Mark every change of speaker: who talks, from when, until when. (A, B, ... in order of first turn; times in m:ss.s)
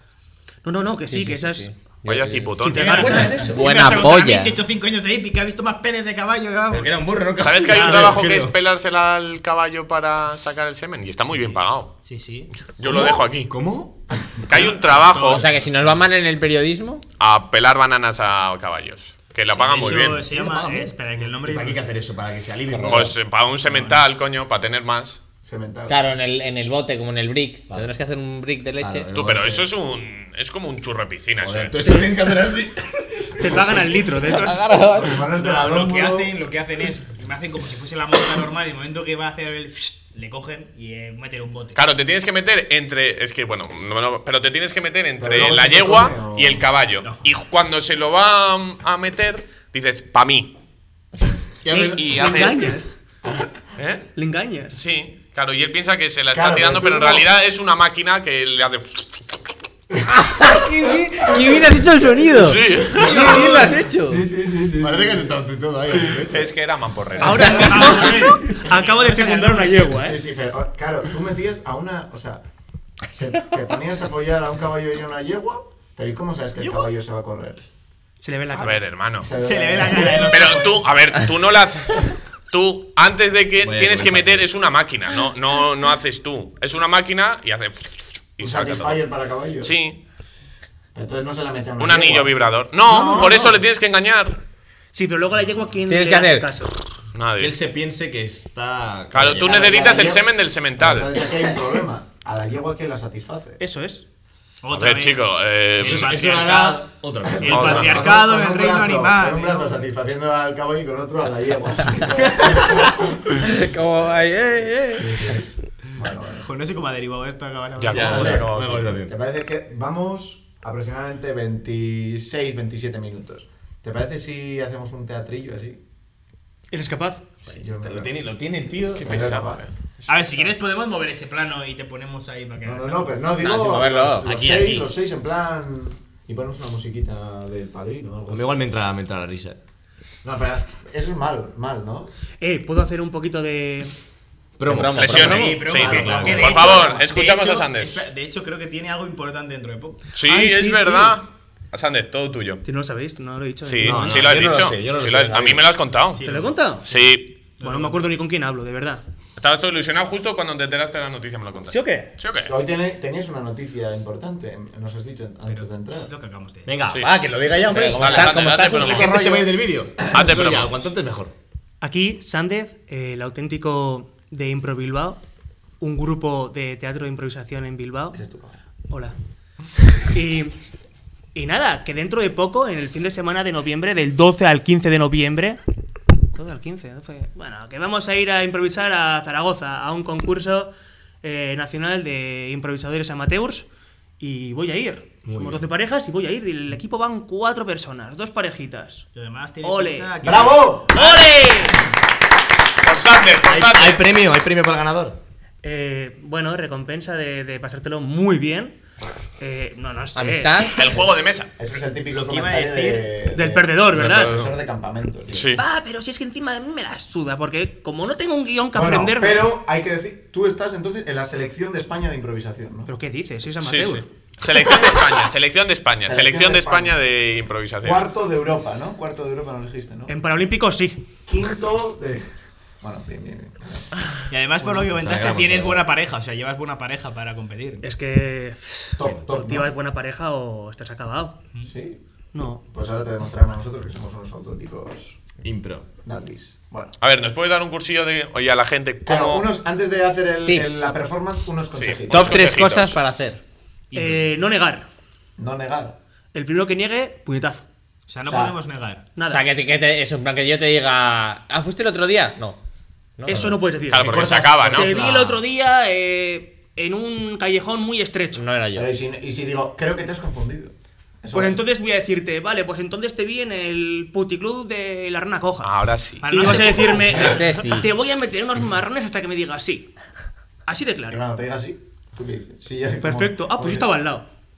0:00.6-0:01.7 A
0:01.1-0:04.6 B
0:02.1-0:03.3 C
0:02.6-0:03.4 A
0:02.7-0:08.2 D
0:03.0-0:03.5 E
0:06.7-0:08.6 E
0:07.4-0:12.0 C
0:12.0-0:12.5 D
0:12.8-0:13.5 C
0:12.8-0:14.5 E
0:14.5-0:15.5 C
0:14.5-0:15.7 D
0:15.3-0:17.0 B
0:17.2-0:20.2 C
0:19.5-0:22.0 D
0:19.8-0:23.2 E
0:22.7-0:23.1 B
0:22.9-0:25.2 C
0:23.6-0:24.0 D
0:25.4-0:26.0 F
0:25.9-0:29.1 B
0:28.8-0:29.7 E
0:29.1-0:31.8 C
0:31.4-0:33.8 E
0:31.8-0:32.2 A
0:33.4-0:34.8 A
0:34.3-0:35.2 B
0:34.9-0:36.3 F
0:35.3-0:41.8 D
0:41.8-0:50.6 C
0:45.2-0:46.6 F
0:51.6-0:52.1 E
0:51.7-0:53.0 A
0:51.7-0:52.8 C
0:53.8-0:54.1 C
0:54.2-0:54.8 A
0:54.8-0:59.1 C
0:56.3-0:57.3 F
1:00.1-1:04.2 B
1:02.3-1:03.4 C
1:02.9-1:05.4 F
1:04.8-1:06.5 E
1:05.9-1:06.2 F
1:06.3-1:07.9 C
1:07.2-1:10.2 A
1:07.5-1:09.9 D
1:09.9-1:12.4 F
1:13.1-1:17.6 F
1:16.6-1:16.9 D
1:18.2-1:18.8 A
1:18.6-1:19.3 C
1:19.2-1:20.4 F
1:19.3-1:20.9 D
1:20.3-1:29.0 C
1:23.6-1:24.5 E
1:28.4-1:29.8 F
1:29.6-1:30.0 C
1:31.0-1:32.3 F
1:31.8-1:34.4 C
1:32.8-1:33.6 F
1:34.9-1:36.8 A
1:35.9-1:36.5 B
1:37.1-1:37.6 C
1:37.4-1:39.8 E
1:39.1-1:41.1 C
1:39.4-1:43.6 F
1:43.6-1:44.1 A
1:44.6-1:49.8 D
1:44.7-1:46.2 C
1:45.8-1:48.1 E
1:47.2-1:53.2 F
1:47.4-1:48.1 C
1:52.0-1:52.9 E
1:53.4-1:55.4 B
1:55.1-1:55.4 E
1:56.0-1:56.5 F
1:56.4-1:58.4 D
1:57.8-1:58.9 C
1:57.9-1:59.2 E
1:58.0-2:05.8 F
2:06.7-2:07.4 A
2:07.5-2:09.3 E
2:07.5-2:08.1 F
2:09.0-2:10.1 C
2:09.0-2:09.6 F
2:10.1-2:13.3 D
2:12.6-2:18.6 F
2:13.4-2:14.3 B
2:14.2-2:14.9 E
2:18.3-2:19.6 E
2:20.2-2:22.1 F
2:22.4-2:23.9 A
2:24.6-2:26.5 E
2:24.6-2:25.5 B
2:24.9-2:28.1 C
2:25.2-2:30.1 D
2:25.8-2:27.1 F
2:30.2-2:32.6 C
2:30.2-2:31.2 A
2:32.6-2:34.3 A
2:33.6-2:36.2 C
2:33.8-2:35.7 E
2:36.1-2:36.6 D
2:36.2-2:36.9 A
2:36.9-2:37.4 C
2:37.6-2:38.0 D
2:37.6-2:39.0 A
2:39.4-2:42.5 C
2:41.6-2:42.1 A
2:42.4-2:46.1 F
2:45.5-2:46.8 D
2:46.7-2:51.3 E
2:47.6-2:49.1 B
2:48.0-2:49.2 C
2:48.7-2:50.2 F
2:50.1-2:50.7 C
2:51.8-2:55.2 A
2:55.8-2:58.2 A
2:58.1-2:58.6 F
2:58.9-2:59.2 A
3:00.1-3:00.6 A
3:01.3-3:05.6 A
3:06.3-3:10.7 A
3:11.2-3:13.7 A
3:14.2-3:19.1 A
3:15.2-3:15.6 E
3:19.1-3:20.8 D
3:19.6-3:20.2 A
3:20.2-3:21.0 F
3:20.9-3:21.8 A
3:22.8-3:24.0 C
3:23.4-3:25.2 E
3:25.6-3:28.8 A
3:29.4-3:30.9 A
3:30.1-3:30.8 B
3:30.7-3:31.5 C
3:31.6-3:35.5 F
3:32.1-3:33.1 D
3:33.3-3:34.4 A
3:33.9-3:34.5 C
3:35.3-3:35.6 C
3:35.5-3:39.5 A
3:38.7-3:42.9 F
3:42.9-3:44.1 A
3:43.6-3:48.1 C
3:46.0-3:47.0 F
3:47.8-3:50.1 F
3:50.1-3:51.0 A
3:51.3-3:54.0 F
3:54.3-3:57.8 D
3:54.8-3:55.9 E
3:57.8-4:01.4 A
3:59.0-3:59.7 F
3:59.0-3:59.3 E
4:01.6-4:02.0 F
4:02.3-4:02.6 A
4:02.7-4:05.2 F
4:05.4-4:05.9 E
4:06.0-4:07.0 F
4:07.0-4:09.5 C
4:09.1-4:12.6 F
4:10.5-4:10.9 B
4:11.7-4:13.0 C
4:12.1-4:13.4 B
4:13.9-4:14.2 D
4:13.9-4:14.9 A
4:15.4-4:16.0 F
4:16.3-4:17.6 A
4:18.1-4:19.1 D
4:18.3-4:18.6 F
4:19.2-4:19.5 A
4:19.3-4:22.6 B
4:23.2-4:23.5 B
4:23.3-4:28.4 A
4:23.3-4:25.4 E
4:23.9-4:25.0 C
4:28.4-4:28.9 B
4:28.7-4:31.6 F
4:31.3-4:35.7 A
4:35.6-4:36.3 C
4:36.2-4:37.3 D
4:36.2-4:39.9 A
4:37.1-4:37.9 B
4:40.7-4:41.2 A
4:41.1-4:43.9 F
4:43.0-4:44.3 A